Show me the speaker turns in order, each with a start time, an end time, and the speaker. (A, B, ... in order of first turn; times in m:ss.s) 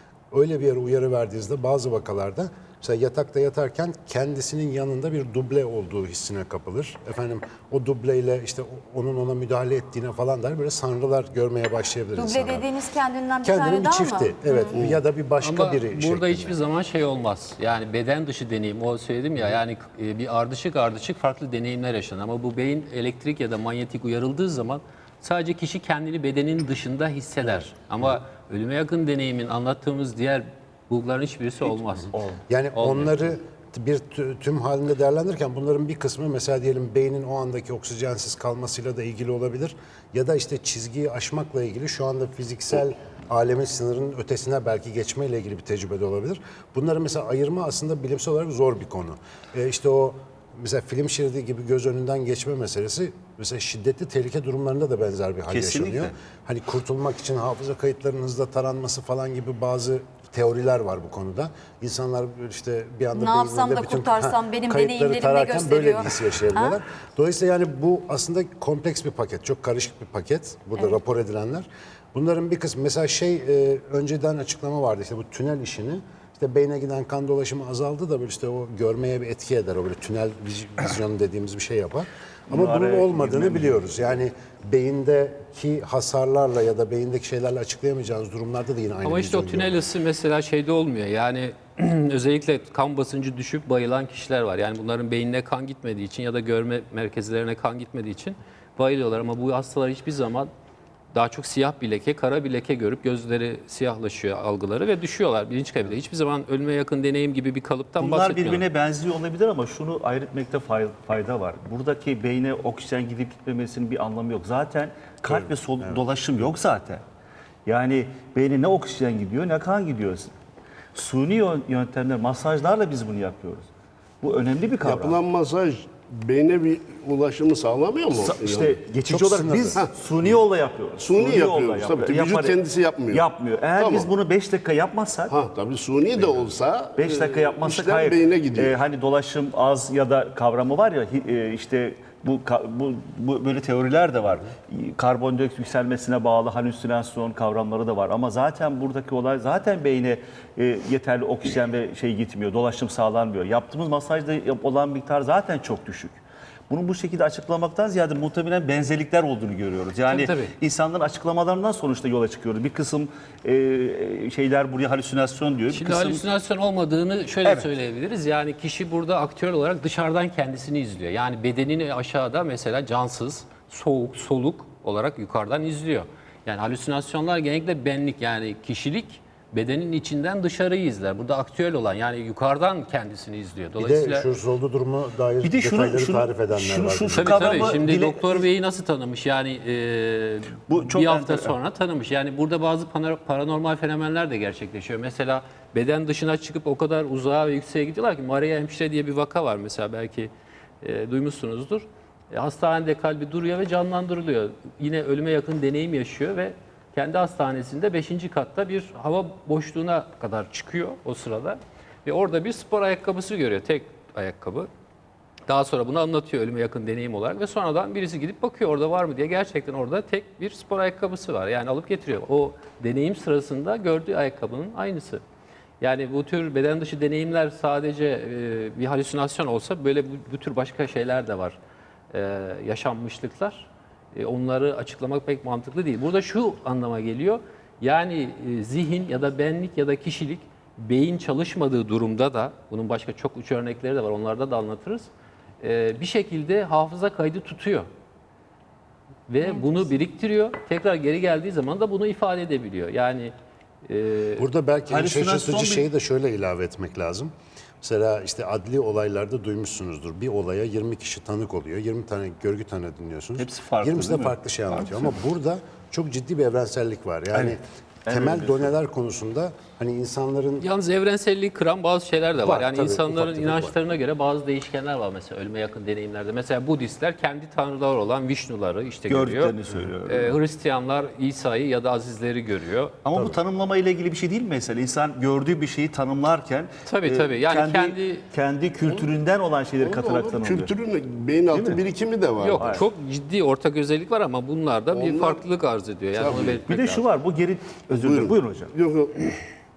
0:00.3-0:12.7 A
0:12.2-0:14.8 B
0:13.4-0:16.6 A
0:14.7-0:15.0 C
0:15.4-0:32.1 D
0:27.4-0:28.2 A
0:32.1-0:32.4 E
0:32.5-1:29.8 A
0:32.7-0:33.2 D
0:55.5-0:56.1 E
1:03.1-1:06.8 B
1:22.5-1:24.2 E
1:29.0-1:40.5 D
1:41.1-1:48.6 D
1:48.0-1:57.0 E
1:55.3-1:56.0 A
1:57.6-2:00.3 E
2:00.9-2:03.7 E
2:04.2-2:05.2 E
2:04.8-2:08.8 C
2:08.2-2:12.6 E
2:09.0-2:10.3 A
2:11.0-2:14.1 C
2:13.1-2:15.3 E
2:15.3-2:18.7 C
2:16.2-2:46.2 E
2:40.1-2:40.5 D
2:45.7-3:04.3 D
3:03.8-3:07.8 A
3:05.4-3:08.5 E
3:07.1-3:34.7 D
3:10.7-3:11.5 E
3:35.5-3:45.2 D
3:45.8-3:51.6 D
3:52.1-4:07.9 D
4:09.3-4:13.3 D
4:13.8-4:14.5 D
4:14.4-4:30.6 A
4:14.9-4:15.9 E
4:23.4-4:25.1 E
4:27.3-4:28.8 E
4:30.6-4:39.5 D
4:32.4-4:33.8 A
4:39.1-4:40.3 E
4:40.0-4:43.0 D
4:43.0-4:50.7 E
4:46.8-4:48.2 D
4:49.8-4:52.8 C
4:51.5-4:51.8 E
4:52.4-4:57.0 D
4:52.6-4:52.8 E
4:54.9-4:55.4 C
4:56.1-4:56.6 C
4:56.7-4:58.7 E
4:57.9-4:59.4 C